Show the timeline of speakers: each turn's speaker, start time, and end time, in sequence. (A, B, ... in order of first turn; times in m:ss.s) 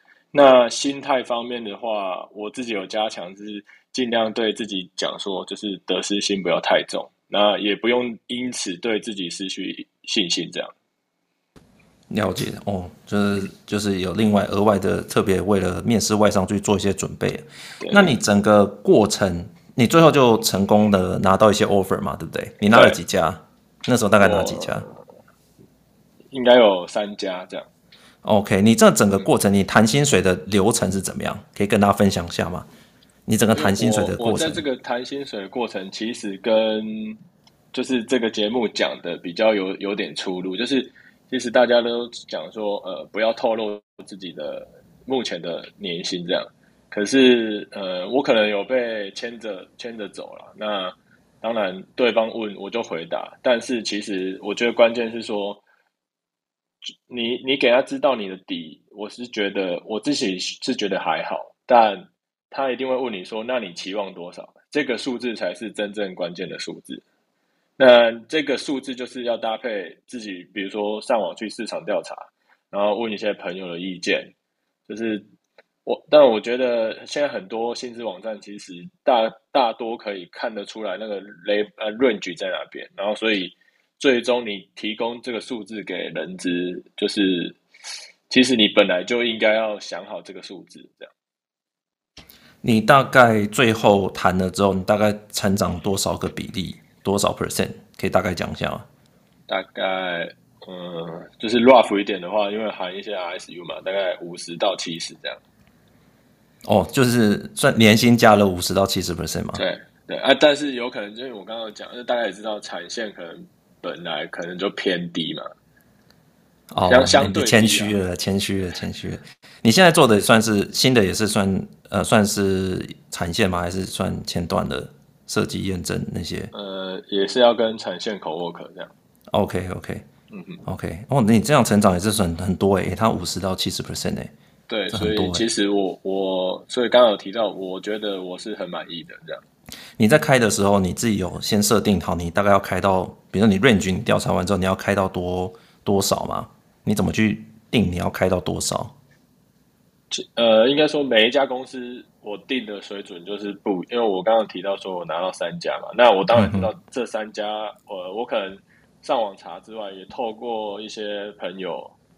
0:00.3-0:10.7 A
0:12.1-0:24.8 B
0:17.8-0:18.1 A
0:22.7-0:23.0 A
0:24.2-0:25.0 A
0:26.3-0:27.7 A
0:28.2-0:32.7 B
0:33.3-0:34.6 B
0:33.5-0:37.2 A
0:37.7-0:55.6 A
0:57.1-1:07.0 A
1:07.8-1:14.3 A
1:14.9-1:15.2 A
1:15.8-1:27.6 A
1:28.3-1:31.1 A
1:32.6-1:38.8 B
1:39.5-1:45.4 A
1:46.6-1:49.6 B
1:49.6-1:55.5 A
1:56.7-2:06.5 B
1:56.9-1:57.9 A
2:06.5-2:08.9 A
2:09.3-2:10.0 B
2:10.3-2:10.6 A
2:10.6-2:14.3 B
2:14.7-2:19.4 A
2:14.9-2:15.4 B
2:20.0-2:28.9 B
2:30.1-2:41.9 A
2:36.3-2:36.7 B